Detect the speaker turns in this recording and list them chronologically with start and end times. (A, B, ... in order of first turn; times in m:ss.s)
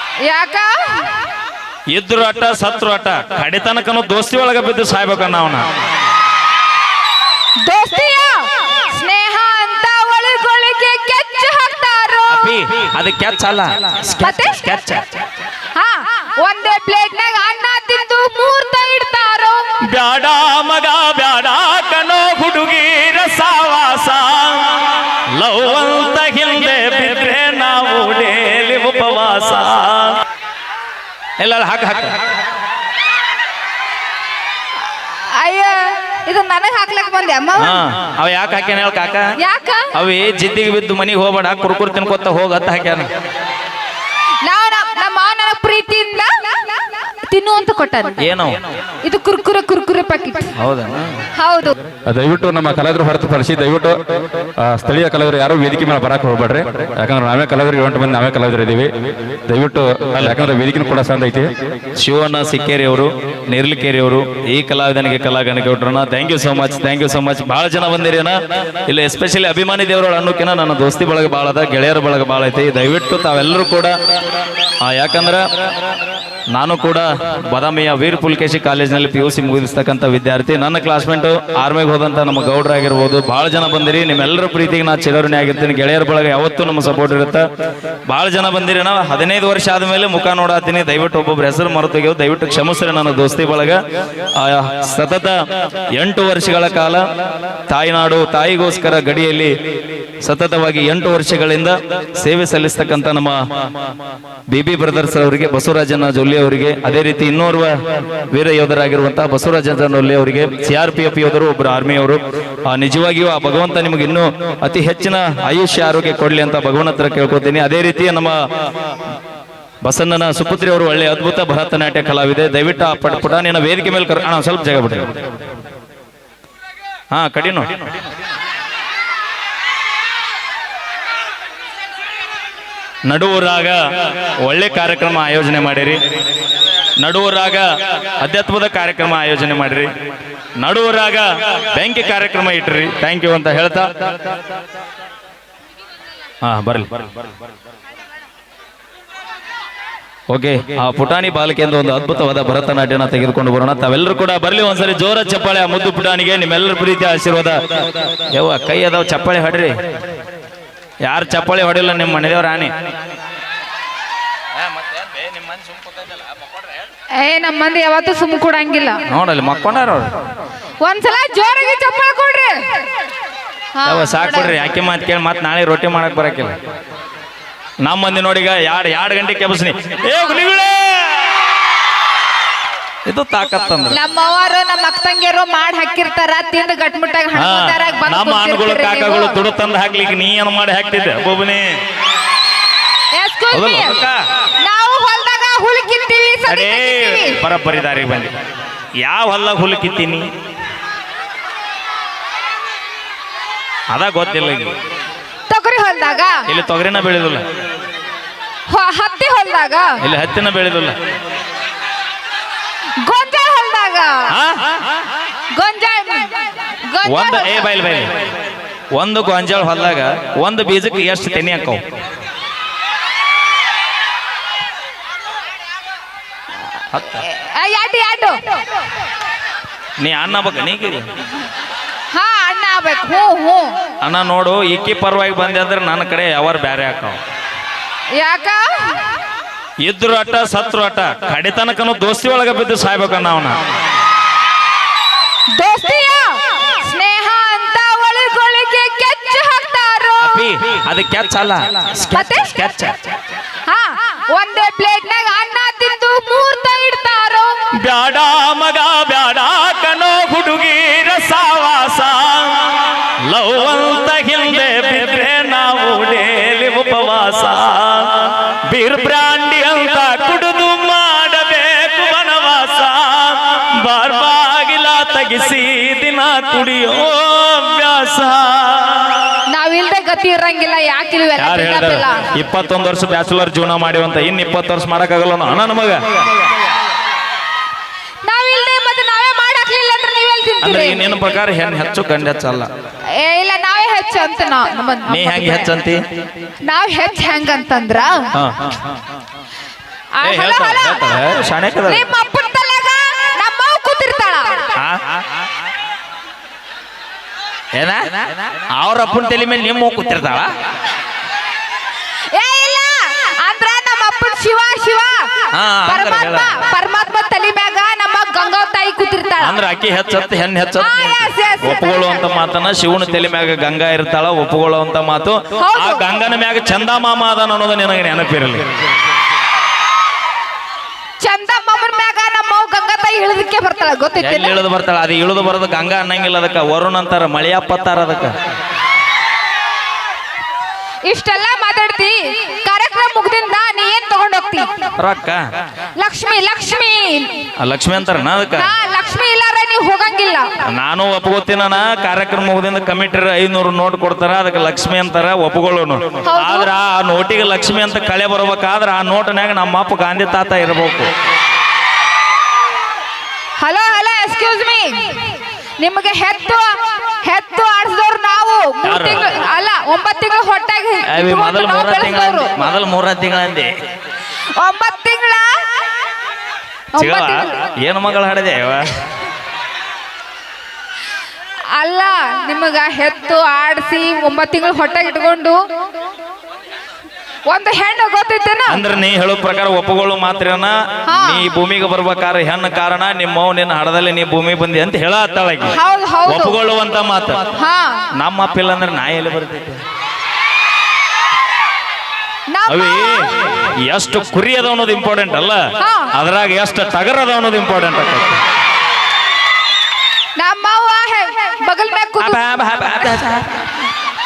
0:00.2-0:01.0 A
0:01.9-0:05.6 B
0:07.6-0:12.5 A
0:12.3-0:15.2 B
0:14.2-0:14.6 A
0:15.7-0:19.6 A
0:19.9-0:30.1 B
0:31.4-0:32.2 B
0:34.9-0:37.8 A
0:37.6-0:39.3 B
0:39.4-0:39.9 A
0:39.9-0:43.1 B
0:44.4-0:46.8 A
0:47.3-0:48.3 A
0:48.2-0:48.6 B
0:49.0-0:50.5 A
0:50.6-0:51.2 B
0:51.4-0:51.7 A
0:52.1-0:54.0 C
0:54.6-1:01.5 C
1:00.2-1:00.4 B
1:02.0-1:13.9 B
1:14.8-1:15.4 B
1:16.5-1:27.4 B
1:28.1-1:33.8 B
1:34.4-1:35.4 B
1:36.0-1:37.0 B
1:37.7-1:39.5 B
1:40.2-1:43.4 B
1:44.5-1:47.7 B
1:48.3-1:58.4 B
1:59.8-2:05.0 B
2:07.1-2:07.9 B
2:13.0-2:13.8 B
2:14.4-2:16.0 B
2:17.0-2:17.6 B
2:18.2-2:19.9 B
2:20.6-2:23.9 B
2:26.4-2:27.1 B
2:30.3-2:37.6 B
2:38.3-2:39.7 B
2:41.0-2:42.7 B
2:44.8-2:45.8 B
2:47.2-2:49.0 A
2:49.1-2:50.1 B
2:50.8-2:52.6 A
2:53.7-2:54.5 A
2:53.8-2:56.6 B
2:57.8-3:01.4 B
3:03.0-3:04.0 B
3:03.9-3:09.4 A
3:07.3-3:11.7 B
3:13.1-3:14.0 A
3:13.5-3:14.2 B
3:14.6-3:17.4 A
3:16.5-3:18.3 B
3:19.0-3:20.2 B
3:23.9-3:24.7 B
3:25.5-3:26.4 A
3:26.5-3:27.4 B
3:28.7-3:29.9 A
3:30.0-3:30.9 B
3:33.0-3:34.3 A
3:34.3-3:35.0 B
3:35.5-3:36.3 A
3:36.9-3:37.7 A
3:37.0-3:38.3 B
3:38.9-3:41.8 B
3:46.9-3:47.2 B
3:47.2-3:48.4 A
3:50.0-3:51.1 B
3:52.1-3:53.7 A
3:54.0-3:57.2 B
3:58.2-3:59.0 A
3:59.8-4:03.6 B
4:05.5-4:10.4 A
4:10.2-4:13.1 B
4:12.1-4:12.5 A
4:13.7-4:17.6 A
4:17.8-4:39.1 B
4:39.5-4:42.2 A
4:41.4-4:46.0 B
4:48.2-4:51.0 A
4:50.6-4:52.7 B
4:53.1-4:55.7 A
4:55.1-4:56.0 B
4:56.6-4:58.3 A
4:58.3-4:59.0 B
5:00.1-5:00.9 A
5:00.2-5:02.0 B
5:01.8-5:04.7 A
5:04.8-5:05.4 B
5:07.7-5:10.5 B
5:12.3-5:15.3 A
5:15.5-5:16.6 B
5:15.8-5:19.6 A
5:19.4-5:28.7 B
5:20.8-5:22.2 A
5:25.6-5:26.1 A
5:31.2-5:34.6 A
5:34.2-5:38.3 B
5:41.0-5:44.7 A
5:45.0-5:45.4 B
5:46.0-5:47.4 A
5:47.6-5:48.7 B
5:48.6-5:50.5 A
5:50.6-6:01.1 B
5:56.2-5:56.7 A
6:03.6-6:05.3 A
6:05.8-6:06.7 A
6:07.2-6:12.5 A
6:08.8-6:09.2 B
6:11.1-6:13.7 B
6:14.6-6:15.5 A
6:16.9-6:17.5 A
6:17.0-6:19.0 B
6:21.8-6:25.6 A
6:27.5-6:28.9 A
6:28.7-6:37.5 B
6:31.0-6:31.4 A
6:35.7-6:36.6 A
6:37.6-6:38.1 A
6:38.2-6:39.8 B
6:42.5-6:43.3 A
6:42.7-6:45.6 B
6:45.8-6:46.1 A
6:46.1-6:48.4 B
6:50.4-6:52.4 A
6:52.2-6:53.8 B